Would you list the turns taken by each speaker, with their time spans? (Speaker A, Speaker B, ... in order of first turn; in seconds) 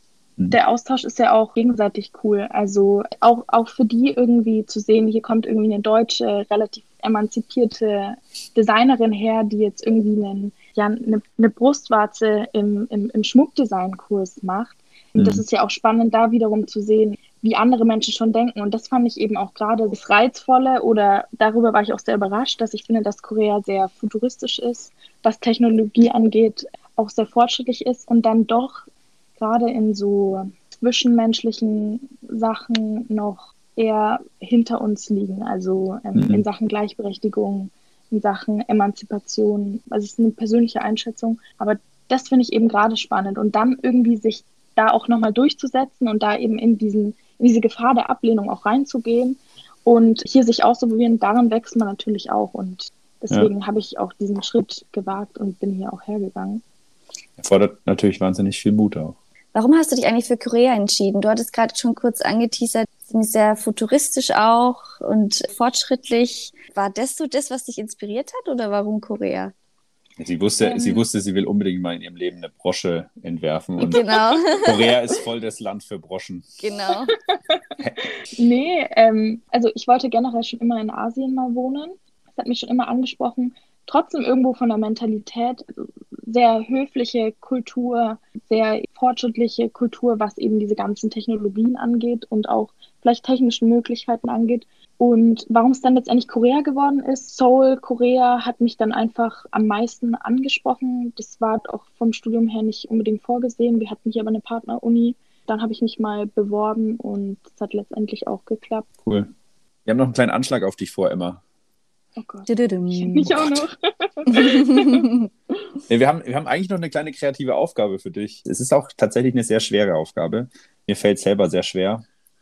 Speaker A: 0.5-28.9, 29.4-56.6, 70.6-71.1, 77.1-108.9, 112.2-115.1
Speaker B: 15.2-15.4, 36.1-36.5, 57.4-59.2, 70.2-74.0, 74.6-76.5, 109.0-109.3, 109.9-111.4, 115.9-122.0
Speaker C: 59.5-69.5, 73.8-74.9, 76.6-77.2, 112.5-113.4, 114.3-115.3